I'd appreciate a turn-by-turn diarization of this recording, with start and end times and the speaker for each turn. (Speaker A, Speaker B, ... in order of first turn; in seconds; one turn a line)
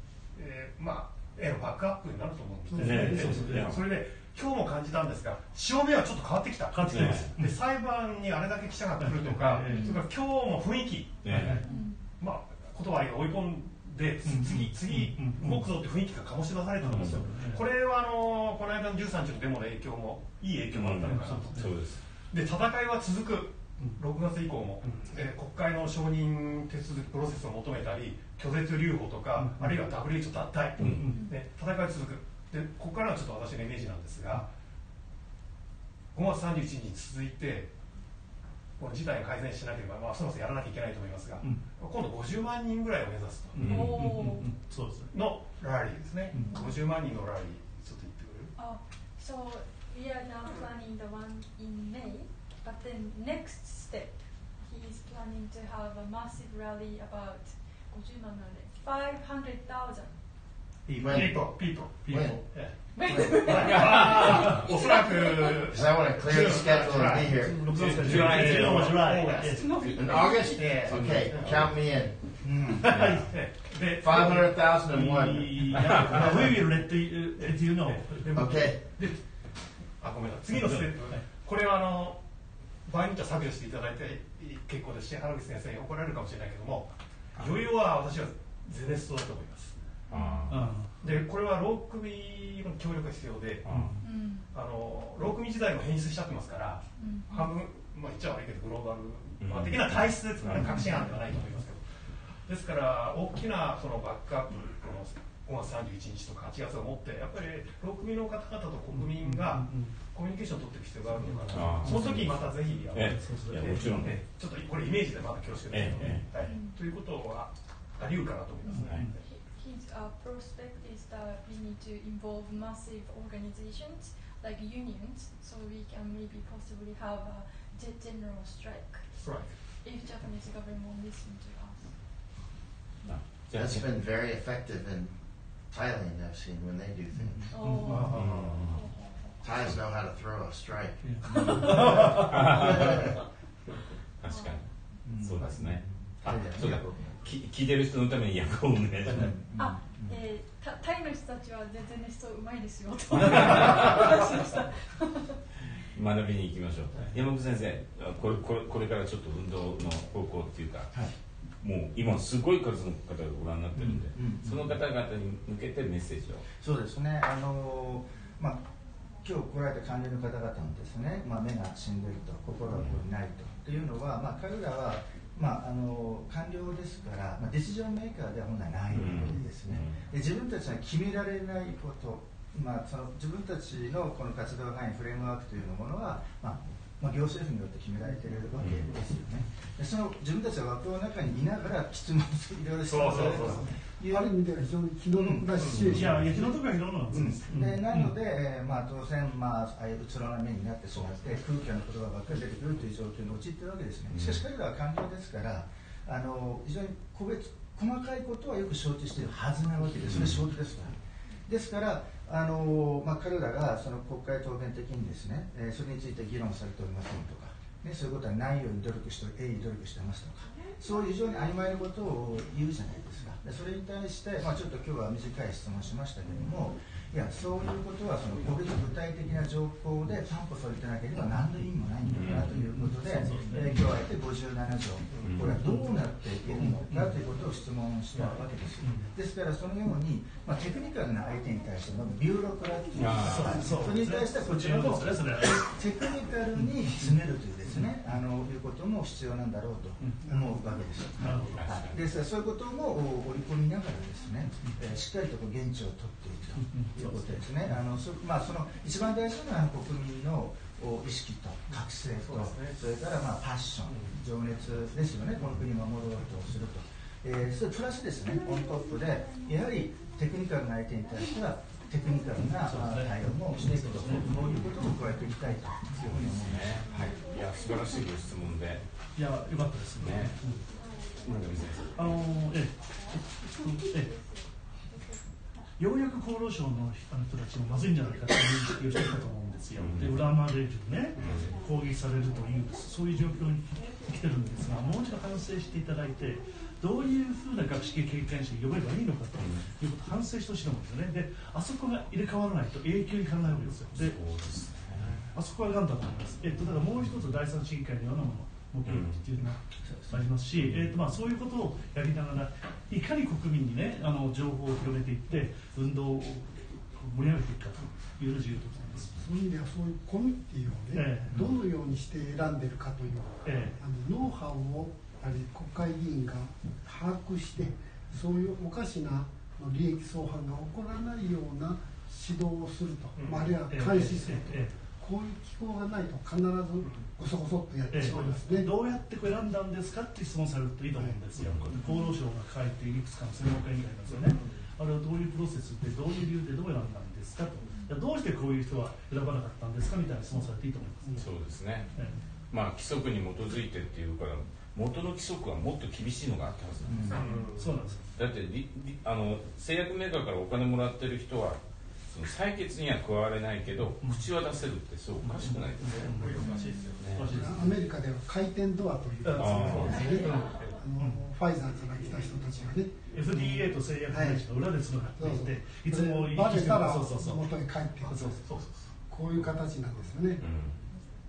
Speaker A: 0.3-11.5
Speaker B: 2.7-3.4
Speaker C: 2.8-3.8
Speaker D: 2.8-3.8
Speaker C: 6.7-7.5
Speaker D: 6.9-7.3
Speaker C: 9.0-10.0
Speaker E: 9.7-10.0
Speaker D: 11.2-11.6
Speaker C: 11.2-11.7
Speaker E: 11.6-12.0
Speaker B: 11.6-11.9
Speaker A: 12.1-21.8
Speaker C: 14.2-15.7
Speaker C: 16.8-17.7
Speaker D: 16.9-17.2
Speaker D: 20.7-22.0
Speaker C: 21.0-21.8
Speaker A: 22.3-34.4
Speaker C: 24.8-25.1
Speaker C: 29.4-29.8
Speaker C: 30.8-31.3
Speaker D: 30.8-31.1
Speaker E: 31.1-31.4
Speaker A: 36.1-37.7
Speaker A: 38.8-43.8
Speaker C: 43.5-45.1
Speaker D: 43.6-43.9
Speaker E: 43.7-44.5
Speaker A: 45.1-48.5
Speaker C: 46.3-46.7
Speaker E: 48.5-60.2
Speaker F: 60.9-62.4
Speaker A: 61.1-69.6
Speaker C: 61.1-63.0
Speaker E: 62.9-65.7
Speaker D: 63.5-64.4
Speaker C: 64.3-64.6
Speaker F: 65.7-67.6
Speaker C: 67.6-69.8
Speaker D: 67.7-71.8
Speaker E: 69.1-70.8
Speaker F: 69.9-72.2
Speaker A: 70.4-71.7
Speaker G: 72.4-73.1
Speaker C: 72.8-73.3
Speaker D: 72.9-73.3
Speaker A: 73.3-79.2
Speaker F: 74.0-76.5
Speaker C: 74.8-78.3
Speaker D: 75.7-76.2
Speaker F: 78.3-78.8
Speaker A: 80.0-82.2
Speaker C: 80.6-81.3
Speaker A: 82.8-89.8
Speaker E: 90.1-90.5
Speaker D: 90.1-90.7
Speaker C: 90.5-90.9
Speaker A: 91.0-93.7
Speaker D: 93.6-93.9
Speaker C: 93.7-94.0
Speaker E: 94.0-94.5
Speaker A: 94.4-101.9
Speaker E: 97.0-97.5
Speaker D: 99.4-100.8
Speaker C: 100.5-101.2
Speaker A: 102.4-119.1
Speaker C: 108.9-110.0
Speaker C: 111.2-114.2
Speaker D: 111.5-114.2
Speaker D: 115.7-116.2
Speaker E: 116.4-116.8
Speaker C: 118.6-119.2
Speaker E: 119.1-132.0
Speaker A: 129.2-129.6
Speaker D: 133.0-133.8
Speaker F: 133.5-137.6
Speaker G: 137.2-137.5
Speaker E: 137.5-139.4
Speaker C: 137.6-138.4
Speaker A: 137.9-138.6
Speaker D: 138.1-138.8
Speaker F: 138.4-138.7
Speaker F: 139.4-141.0
Speaker C: 141.0-142.7
Speaker G: 141.2-143.1
Speaker E: 141.3-141.8
Speaker D: 142.0-143.1
Speaker F: 142.7-143.0
Speaker D: 144.2-149.3
Speaker E: 144.2-144.6
Speaker G: 145.0-147.2
Speaker C: 149.1-149.3
Speaker G: 149.1-150.2
Speaker E: 149.6-155.4
Speaker D: 153.2-154.0
Speaker D: 155.9-161.0
Speaker D: 161.6-166.5
Speaker G: 163.7-164.8
Speaker G: 166.6-168.7
Speaker G: 169.2-194.4
Speaker D: 178.9-180.0
Speaker D: 188.6-188.8
Speaker A: 192.8-193.7
Speaker B: 193.1-196.4
Speaker G: 195.1-196.5
Speaker A: 195.6-195.9
Speaker D: 195.7-196.2
Speaker C: 195.8-198.1
Speaker G: 197.1-277.2
Speaker D: 204.1-204.4
Speaker D: 210.1-210.4
Speaker D: 232.1-232.5
Speaker C: 232.2-233.9
Speaker A: 235.1-235.4
Speaker C: 235.4-236.0
Speaker C: 236.5-237.2
Speaker C: 238.8-239.1
Speaker D: 242.9-243.7
Speaker C: 243.2-245.8
Speaker C: 246.5-247.9
Speaker C: 250.0-250.5
Speaker B: 250.2-250.6
Speaker C: 251.2-251.7
Speaker D: 251.6-252.0
Speaker C: 256.6-257.3
Speaker A: 262.1-262.8
Speaker C: 272.6-274.8
Speaker D: 276.0-278.9
Speaker C: 279.1-280.6
Speaker D: 280.0-282.0
Speaker C: 281.9-284.3
Speaker E: 283.6-284.4
Speaker C: 285.8-304.2
Speaker D: 289.8-290.2
Speaker A: 291.1-291.5
Speaker D: 291.2-291.5
Speaker D: 299.4-299.7
Speaker D: 303.9-305.2
Speaker C: 305.3-319.1
Speaker D: 308.8-309.2
Speaker G: 309.8-310.2
Speaker B: 319.1-338.8
Speaker C: 320.9-321.5
Speaker C: 323.4-323.8
Speaker A: 333.1-333.6
Speaker C: 333.7-334.8
Speaker A: 336.8-337.1
Speaker C: 337.9-351.3
Speaker B: 340.9-341.2
Speaker D: 341.4-341.7
Speaker E: 341.7-342.2
Speaker A: 344.1-344.7
Speaker B: 351.0-351.3
Speaker D: 351.1-351.9
Speaker C: 351.9-352.2
Speaker D: 352.5-357.3
Speaker G: 356.9-357.2
Speaker A: 357.1-357.9
Speaker C: 357.5-358.1
Speaker D: 358.1-366.1
Speaker C: 365.2-366.5
Speaker A: 365.8-367.2
Speaker D: 367.0-367.3
Speaker C: 367.1-367.8
Speaker B: 367.3-374.5
Speaker C: 369.3-369.6
Speaker D: 369.3-370.2
Speaker A: 369.5-370.8
Speaker E: 369.9-370.7
Speaker C: 370.2-371.2
Speaker C: 373.1-377.5
Speaker A: 373.4-373.7
Speaker B: 375.1-378.4
Speaker C: 378.0-378.4
Speaker A: 378.4-379.0
Speaker B: 379.0-380.5
Speaker D: 380.4-380.8